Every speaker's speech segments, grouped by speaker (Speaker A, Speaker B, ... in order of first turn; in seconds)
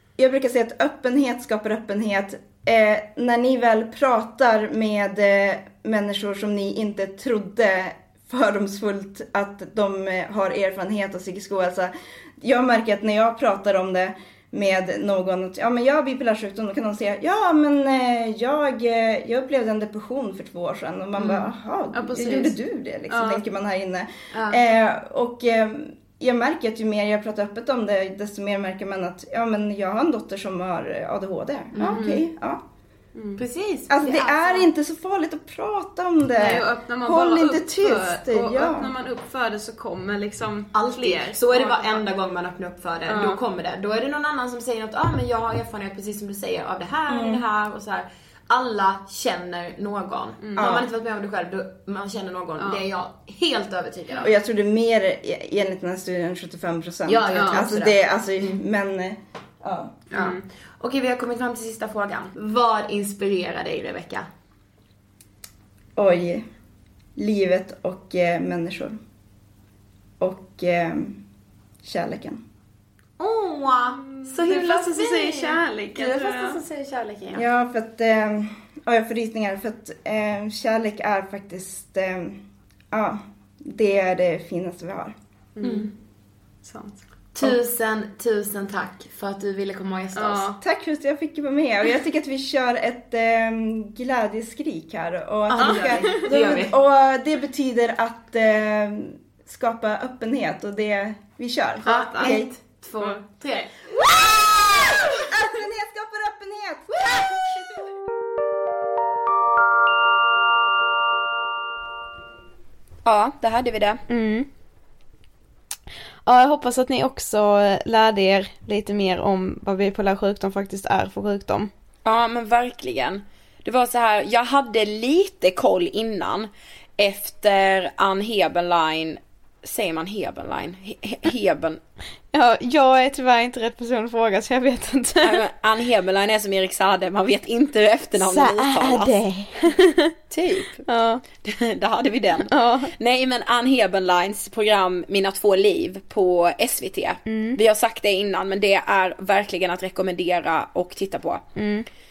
Speaker A: 0.2-32.6, 33.9-38.9, 47.1-47.4, 50.6-50.9, 54.2-60.0, 66.0-66.5, 67.2-69.0, 70.2-71.2, 71.8-72.4, 77.3-85.1, 90.6-102.5, 105.1-107.8
Speaker B: 21.9-22.6, 23.1-23.4, 31.9-32.2, 33.1-33.4, 36.4-42.0, 43.1-43.4, 50.4-50.7, 52.6-52.8, 57.3-57.6, 60.1-60.4, 74.0-76.6, 85.5-85.9, 86.6-87.0, 90.1-90.6, 95.5-96.3, 101.8-102.4, 114.1-114.5, 116.2-121.7, 132.3-135.4, 139.7-140.1, 140.9-141.2, 142.5-142.9, 147.2-147.6, 151.6-151.9
Speaker C: 24.3-24.6, 31.8-32.1, 33.4-34.6, 40.7-54.3, 57.1-58.5, 60.1-64.3, 73.2-77.4, 85.6-85.9, 87.3-90.5, 95.5-96.7, 101.8-103.6
Speaker D: 113.0-114.0, 122.0-131.8, 135.2-139.2, 140.3-140.8, 141.4-151.4